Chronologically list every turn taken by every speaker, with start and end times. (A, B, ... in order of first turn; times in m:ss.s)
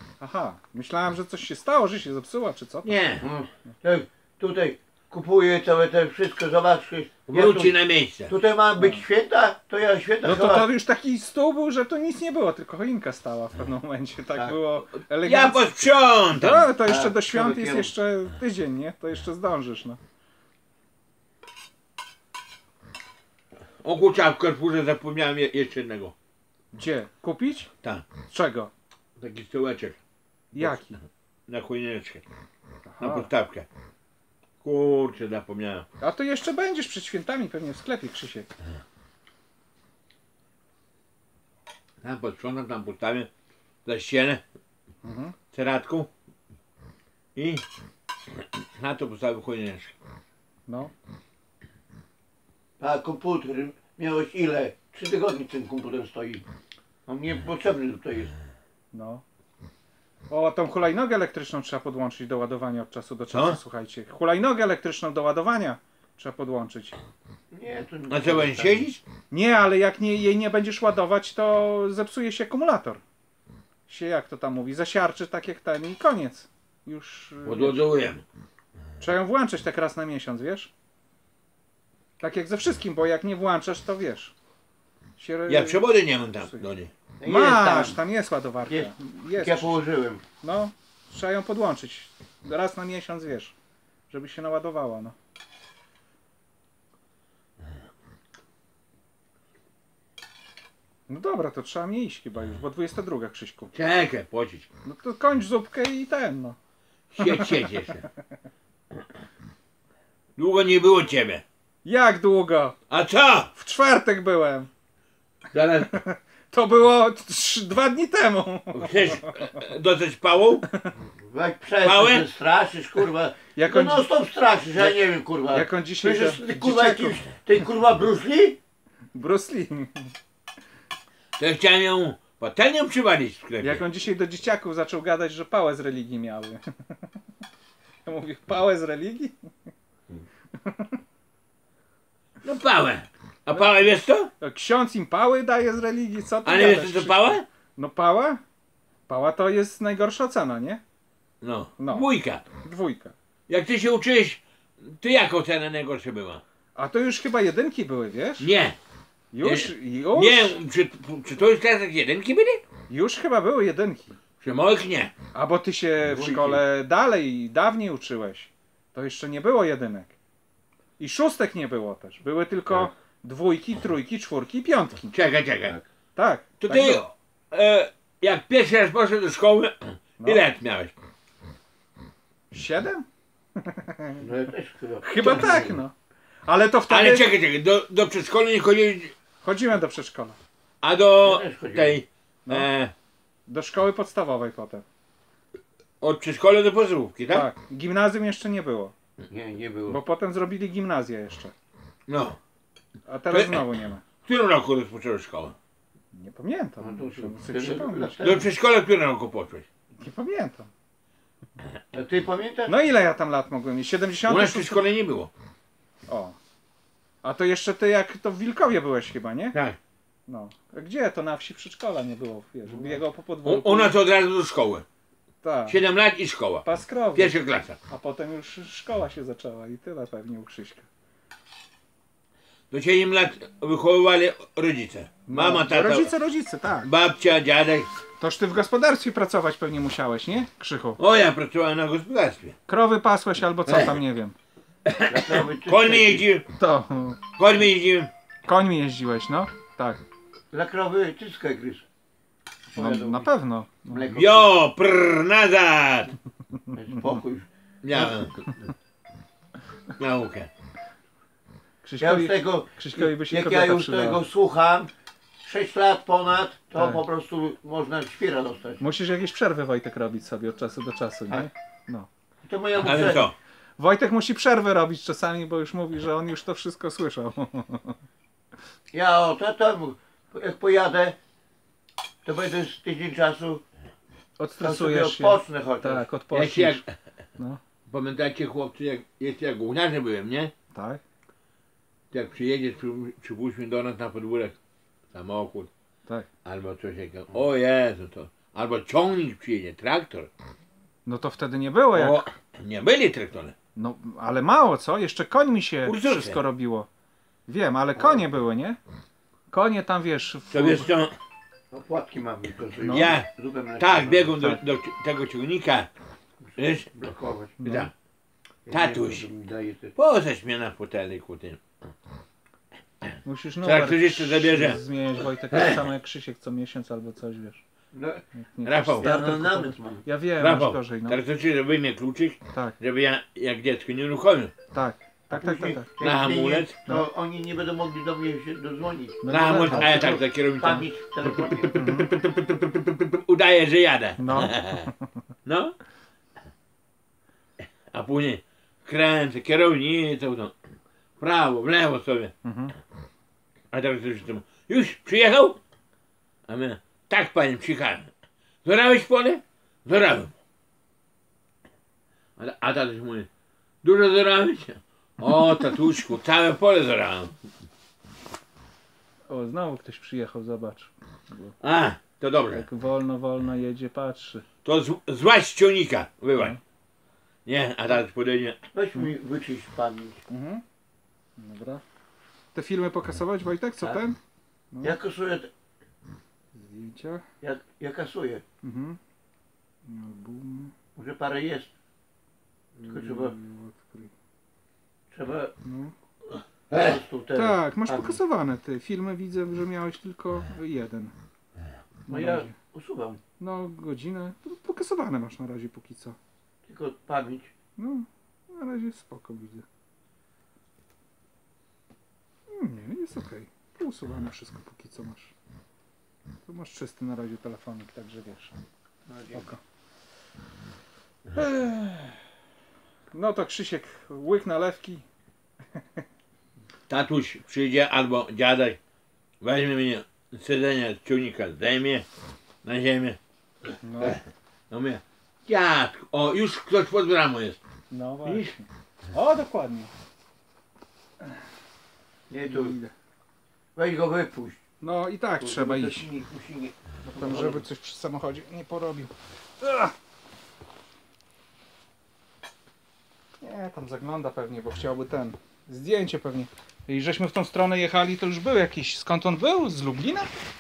0:00.2-0:03.0 A
0:02.8-0:03.3 B
0:03.2-0:07.8 C
0:07.3-0:08.3 B
0:08.3-0:10.7 C
0:08.8-0:09.0 A
0:10.2-0:15.7 A
0:15.2-0:16.7 B
0:16.3-0:20.0 A
0:16.8-0:17.9 C
0:23.8-0:26.1 B
0:26.7-0:27.7 A
0:28.3-0:28.7 A
0:29.2-0:30.0 B
0:30.5-0:31.0 A
0:31.5-0:32.2 B
0:32.9-0:33.3 A
0:33.0-0:33.7 B
0:34.6-0:35.9 B
0:36.0-0:38.5 A
0:42.0-0:43.3 B
0:43.9-0:44.4 B
0:45.0-0:45.4 A
0:45.5-0:46.1 B
0:47.4-0:47.6 B
0:48.4-0:49.9 B
0:50.7-0:50.9 A
0:52.8-0:56.5 C
0:57.1-0:58.3 C
0:58.9-0:59.2 A
1:00.3-1:07.0 A
1:03.3-1:03.6 B
1:07.5-1:08.9 C
1:08.1-1:09.0 B
1:09.3-1:13.0 A
1:13.9-1:17.8 A
1:17.4-1:18.2 B
1:19.0-1:20.7 A
1:22.2-1:24.3 A
1:25.2-1:25.8 A
1:25.5-1:26.9 B
1:27.2-1:28.0 C
1:27.2-1:29.8 A
1:28.7-1:30.2 C
1:30.4-1:33.6 A
1:34.1-1:35.2 A
1:41.1-1:43.7 A
1:43.7-1:44.7 B
1:44.8-1:46.6 A
1:47.2-1:48.0 B
1:47.2-1:47.9 A
1:50.4-1:51.4 B
1:51.8-1:52.8 A
1:52.9-1:53.5 B
1:53.6-1:54.7 A
1:55.5-1:56.0 B
1:55.9-1:59.6 A
1:58.7-2:00.7 B
2:01.2-2:08.6 C
2:01.8-2:02.3 B
2:03.6-2:04.1 A
2:05.5-2:07.2 A
2:09.2-2:10.1 A
2:11.4-2:13.8 B
2:13.6-2:16.6 A
2:18.1-2:19.3 A
2:20.6-2:21.0 A
2:22.4-2:24.3 B
2:24.4-2:28.4 A
2:26.5-2:27.4 B
2:29.1-2:30.8 A
2:31.4-2:32.4 B
2:31.8-2:32.1 A
2:32.6-2:33.1 A
2:33.5-2:36.4 B
2:36.8-2:38.5 A
2:38.4-2:38.8 B
2:39.3-2:40.6 A
2:39.4-2:42.6 B
2:42.9-2:44.1 A
2:44.4-2:45.1 B
2:45.3-2:50.2 A
2:46.0-2:46.6 C
2:51.0-2:55.2 A
2:55.1-2:55.8 B
2:56.2-2:57.0 A
2:56.6-3:00.9 B
3:02.5-3:03.1 A
3:03.6-3:04.2 A
3:04.2-3:05.8 C
3:05.0-3:05.9 A
3:05.3-3:05.6 B
3:06.5-3:07.3 A
3:06.9-3:09.1 B
3:09.4-3:10.4 A
3:10.8-3:12.9 B
3:11.2-3:12.0 C
3:13.5-3:14.8 A
3:16.0-3:17.5 B
3:17.3-3:18.9 A
3:19.3-3:20.0 C
3:19.9-3:21.5 A
3:22.1-3:22.4 B
3:23.1-3:24.0 A
3:23.3-3:25.6 B
3:26.1-3:28.5 A
3:26.8-3:28.5 C
3:28.2-3:29.6 B
3:30.0-3:30.7 A
3:31.9-3:32.7 C
3:32.7-3:34.8 A
3:34.3-3:35.3 B
3:36.1-3:36.4 A
3:37.2-3:39.6 A
3:40.3-3:44.0 A
3:43.4-3:44.8 B
3:45.4-3:45.8 A
3:45.7-3:47.8 B
3:46.6-3:47.3 A
3:47.9-3:50.9 A
3:52.7-3:56.1 B
3:55.3-3:56.9 A
3:56.8-3:57.9 B
3:58.2-4:01.0 A
4:01.0-4:02.6 B
4:02.7-4:04.4 A
4:03.7-4:04.0 B
4:04.9-4:06.4 B
4:05.1-4:06.3 C
4:06.6-4:07.2 A
4:07.4-4:08.1 B
4:08.5-4:10.0 A
4:10.5-4:11.9 C
4:12.7-4:13.3 C
4:12.8-4:14.1 A
4:13.9-4:14.5 C
4:14.1-4:16.1 B
4:16.7-4:18.5 C
4:17.8-4:18.4 B
4:20.0-4:20.5 B
4:21.8-4:24.2 A
4:22.0-4:24.9 C
4:25.4-4:28.8 C
4:26.8-4:27.0 A
4:28.8-4:32.1 A
4:32.4-4:33.2 C
4:32.8-4:33.4 B
4:33.8-4:38.0 A
4:38.9-4:41.2 C
4:42.2-4:43.6 C
4:44.4-4:46.8 A
4:44.6-4:46.1 C
4:46.3-4:46.9 B
4:47.9-4:50.5 B
4:50.7-4:51.0 A
4:52.1-4:54.6 B
4:55.1-4:55.7 B
4:56.4-5:00.3 B
5:01.1-5:02.3 A
5:01.9-5:03.6 B
5:03.8-5:06.9 A
5:05.8-5:06.4 B
5:07.5-5:08.8 A
5:08.0-5:08.2 C
5:09.5-5:10.9 A
5:10.5-5:11.1 B
5:11.7-5:14.6 C
5:12.8-5:13.2 A
5:12.9-5:13.3 B
5:13.8-5:15.9 B
5:16.5-5:17.6 C
5:16.6-5:16.9 B
5:17.6-5:17.9 A
5:17.6-5:17.9 B
5:18.7-5:20.0 C
5:18.7-5:19.3 B
5:20.0-5:21.6 B
5:23.2-5:27.6 A
5:23.6-5:24.8 B
5:25.5-5:25.8 B
5:27.9-5:28.2 C
5:28.3-5:31.2 A
5:28.6-5:29.1 B
5:29.0-5:30.0 C
5:30.4-5:34.5 B
5:34.7-5:35.9 A
5:35.3-5:41.7 C
5:36.0-5:36.8 B
5:39.2-5:40.2 A
5:39.3-5:44.9 B
5:41.7-5:42.1 A
5:44.2-5:44.9 A
5:45.5-5:45.8 B
5:47.9-5:50.5 B
5:51.2-5:52.3 B
5:52.4-5:52.8 A
5:53.7-5:55.6 B
5:56.5-5:58.1 B
5:58.6-6:00.3 B
6:02.4-6:03.3 B
6:03.8-6:07.4 B
6:09.3-6:11.6 A
6:11.6-6:12.6 B
6:12.5-6:14.5 A
6:14.6-6:16.6 B
6:17.5-6:18.6 B
6:18.7-6:20.2 C
6:20.3-6:20.6 A
6:21.4-6:21.8 A
6:22.6-6:24.2 A
6:24.7-6:25.0 A
6:24.8-6:25.5 C
6:26.5-6:27.2 A
6:27.4-6:28.4 C
6:28.6-6:29.0 A
6:29.9-6:30.7 A
6:31.0-6:31.7 C
6:32.8-6:34.1 A
6:32.9-6:33.4 C
6:35.1-6:35.5 C
6:35.6-6:35.9 A
6:36.7-6:37.0 B
6:36.7-6:38.2 C
6:37.4-6:41.1 A
6:42.1-6:42.5 A
6:42.1-6:43.2 C
6:43.4-6:46.2 A
6:46.7-6:47.5 C
6:47.8-6:49.6 A
6:52.5-6:55.3 A
6:56.5-6:58.6 A
6:59.1-6:59.5 C
6:59.3-6:59.6 A
7:01.4-7:02.2 A
7:03.1-7:05.0 A
7:06.9-7:08.8 B
7:09.4-7:12.0 B
7:12.6-7:13.2 B
7:13.8-7:14.2 A
7:14.7-7:17.6 B
7:17.9-7:19.9 A
7:18.2-7:18.5 B
7:22.3-7:22.8 C
7:22.5-7:22.9 A
7:23.8-7:24.6 C
7:24.8-7:26.1 A
7:25.4-7:27.6 C
7:27.0-7:29.9 A
7:33.4-7:40.3 A